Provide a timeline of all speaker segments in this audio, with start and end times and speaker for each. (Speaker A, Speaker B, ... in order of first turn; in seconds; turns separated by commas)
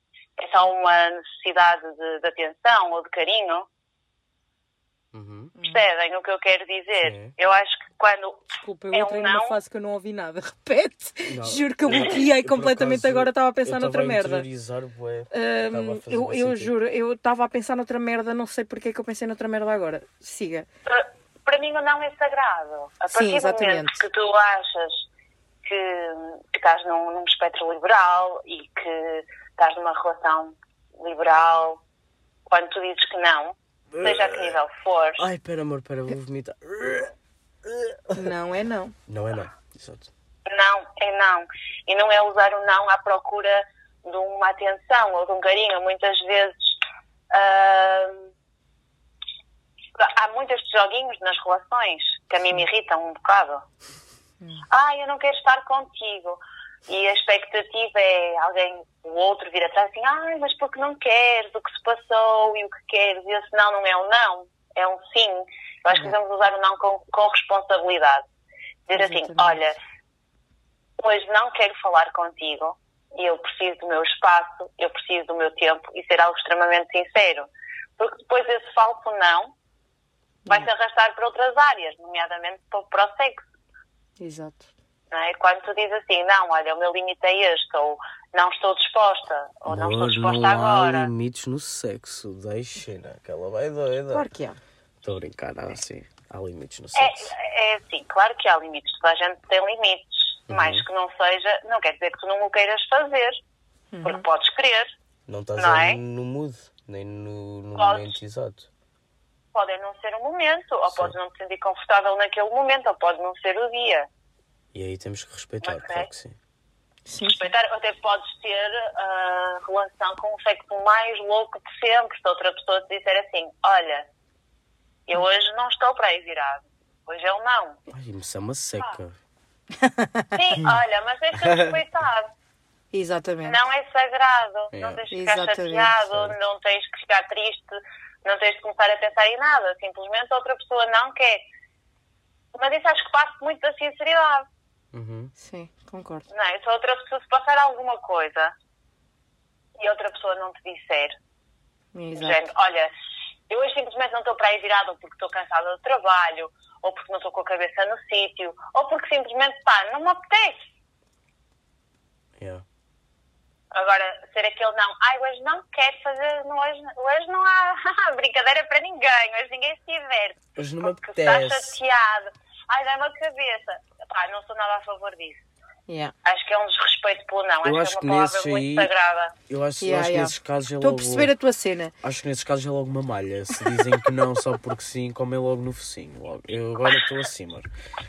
Speaker A: 0.4-3.7, Speaker B: 5.1-5.5, Speaker C: 5.6-5.8, Speaker A: 5.7-9.6, Speaker B: 7.0-7.3, Speaker C: 8.5-14.5, Speaker B: 11.3-16.7, Speaker C: 15.3-20.7, Speaker A: 20.9-25.1, Speaker C: 23.1-24.0, Speaker A: 25.6-31.8, Speaker A: 32.5-35.3, Speaker B: 33.9-34.6, Speaker B: 35.2-37.1, Speaker B: 37.6-38.3, Speaker C: 38.1-39.0, Speaker B: 39.1-40.1, Speaker A: 40.5-48.3, Speaker A: 50.0-53.6, Speaker A: 54.7-68.2, Speaker A: 68.9-69.8, Speaker C: 69.0-69.6, Speaker A: 71.0-79.5, Speaker A: 80.5-83.4, Speaker C: 84.2-84.7, Speaker A: 85.1-91.1, Speaker B: 89.7-94.3, Speaker C: 94.1-94.6, Speaker B: 95.0-97.3, Speaker A: 97.0-103.4, Speaker B: 100.5-100.8, Speaker C: 103.9-104.2, Speaker A: 104.0-104.9, Speaker B: 105.3-108.7, Speaker A: 105.6-106.0, Speaker A: 107.8-108.1, Speaker A: 109.5-114.1, Speaker B: 110.9-111.2, Speaker B: 114.7-116.4, Speaker A: 115.6-116.1, Speaker C: 117.1-117.5, Speaker A: 117.2-124.1, Speaker A: 125.1-127.8, Speaker B: 127.9-129.2, Speaker C: 129.8-130.3, Speaker A: 130.3-132.3, Speaker B: 131.4-131.8, Speaker C: 132.9-133.6, Speaker A: 133.4-141.4, Speaker B: 134.7-135.0, Speaker C: 135.1-135.9, Speaker B: 136.0-136.4, Speaker A: 142.5-144.5, Speaker B: 144.9-145.3, Speaker C: 145.4-146.3, Speaker A: 146.3-148.5, Speaker A: 149.8-151.2, Speaker C: 151.9-152.4, Speaker A: 152.2-152.9, Speaker A: 153.5-160.7, Speaker B: 162.4-162.7, Speaker A: 163.7-175.4, Speaker B: 170.6-171.8, Speaker C: 175.9-176.1, Speaker A: 176.2-179.4, Speaker B: 177.6-178.9, Speaker B: 179.5-181.3, Speaker C: 179.8-181.9, Speaker B: 182.0-187.7